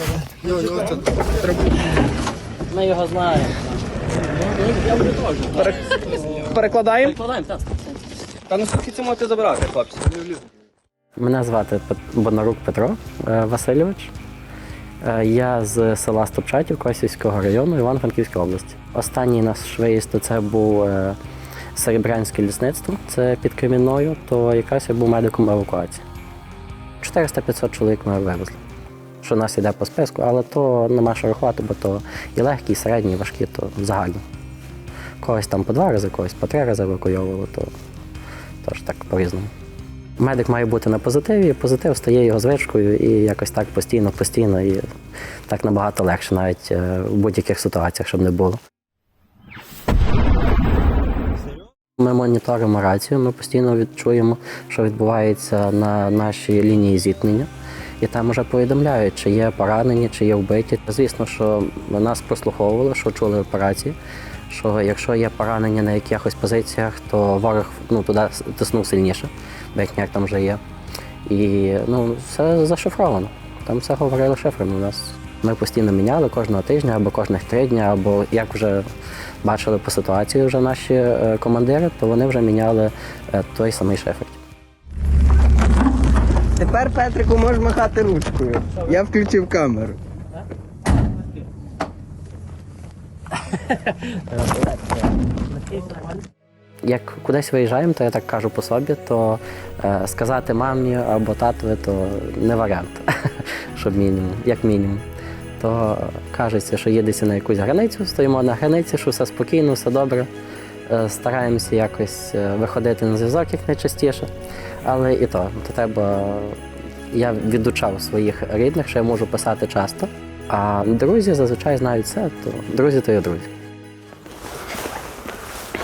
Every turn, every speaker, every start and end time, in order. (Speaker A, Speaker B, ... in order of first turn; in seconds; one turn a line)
Speaker A: 0.4-1.7
Speaker B: 2.7-3.7
Speaker A: 4.8-7.2
Speaker B: 7.0-7.6
Speaker A: 8.5-10.3
Speaker B: 11.2-14.1
Speaker B: 15.0-21.2
Speaker B: 21.7-26.0
Speaker B: 27.0-28.6
Speaker B: 29.2-34.2
Speaker B: 35.2-37.7
Speaker B: 38.6-39.5
Speaker B: 40.2-44.8
Speaker B: 45.5-48.6
Speaker B: 52.0-57.5
Speaker B: 58.0-64.0
Speaker B: 64.5-70.6
Speaker B: 71.2-78.8
Speaker B: 79.4-84.4
Speaker C: 86.6-90.0
Speaker B: 96.8-105.0
Speaker B: 105.6-110.3
Speaker B: 110.9-114.3
Speaker B: 114.8-116.6
Speaker B: 117.1-123.5